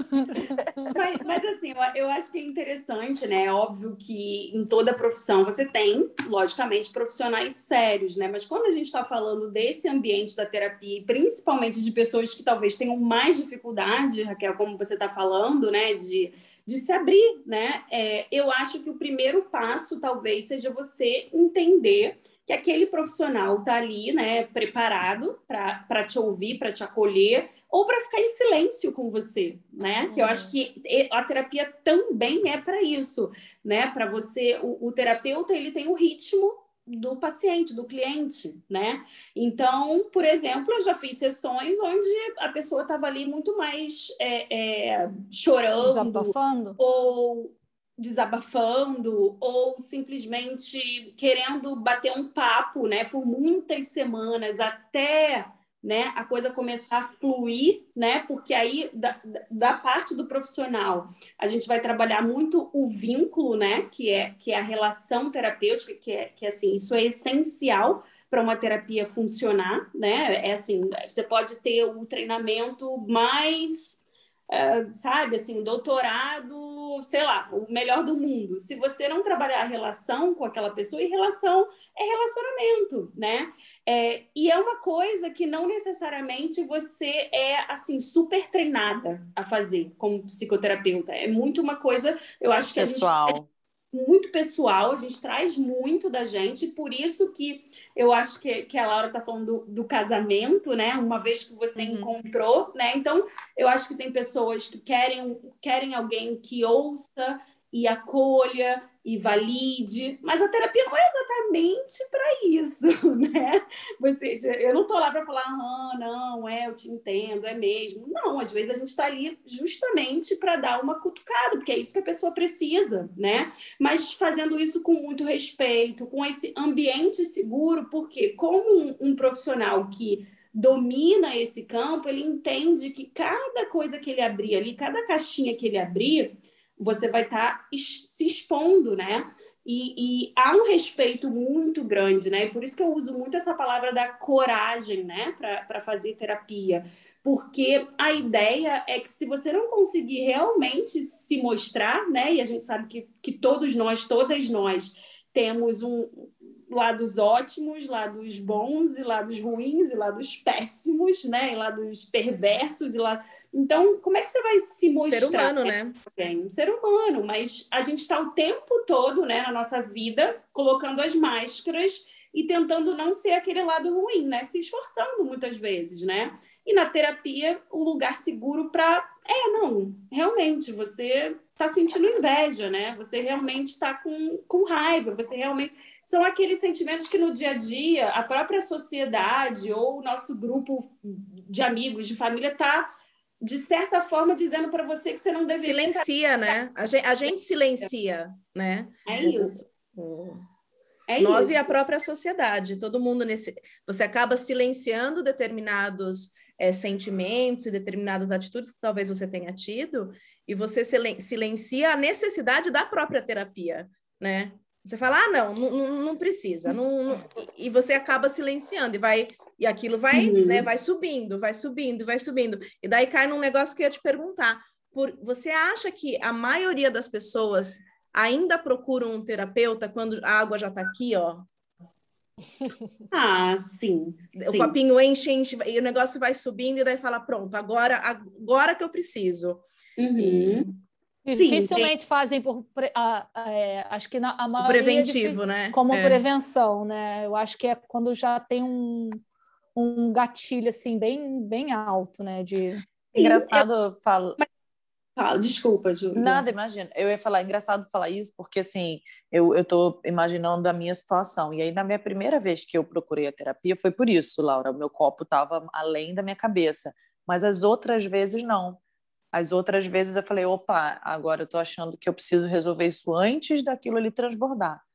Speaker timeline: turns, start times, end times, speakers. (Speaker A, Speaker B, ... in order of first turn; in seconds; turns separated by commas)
Speaker A: 0.2-1.0, Speaker B: 0.9-93.4, Speaker A: 45.8-46.8, Speaker C: 92.8-93.5, Speaker B: 93.9-196.6, Speaker D: 101.8-102.1, Speaker D: 165.0-166.0, Speaker D: 195.6-200.4, Speaker B: 199.1-199.7, Speaker B: 201.1-201.7, Speaker D: 201.2-231.5, Speaker B: 220.1-220.7, Speaker B: 233.1-234.8, Speaker D: 234.4-239.7, Speaker B: 240.0-240.8, Speaker D: 240.3-240.6, Speaker A: 241.3-249.2, Speaker B: 241.3-241.9, Speaker D: 244.6-246.2, Speaker A: 249.8-252.8, Speaker B: 253.1-253.7, Speaker C: 253.2-254.4, Speaker B: 255.2-256.5, Speaker C: 256.1-268.8, Speaker C: 269.3-274.8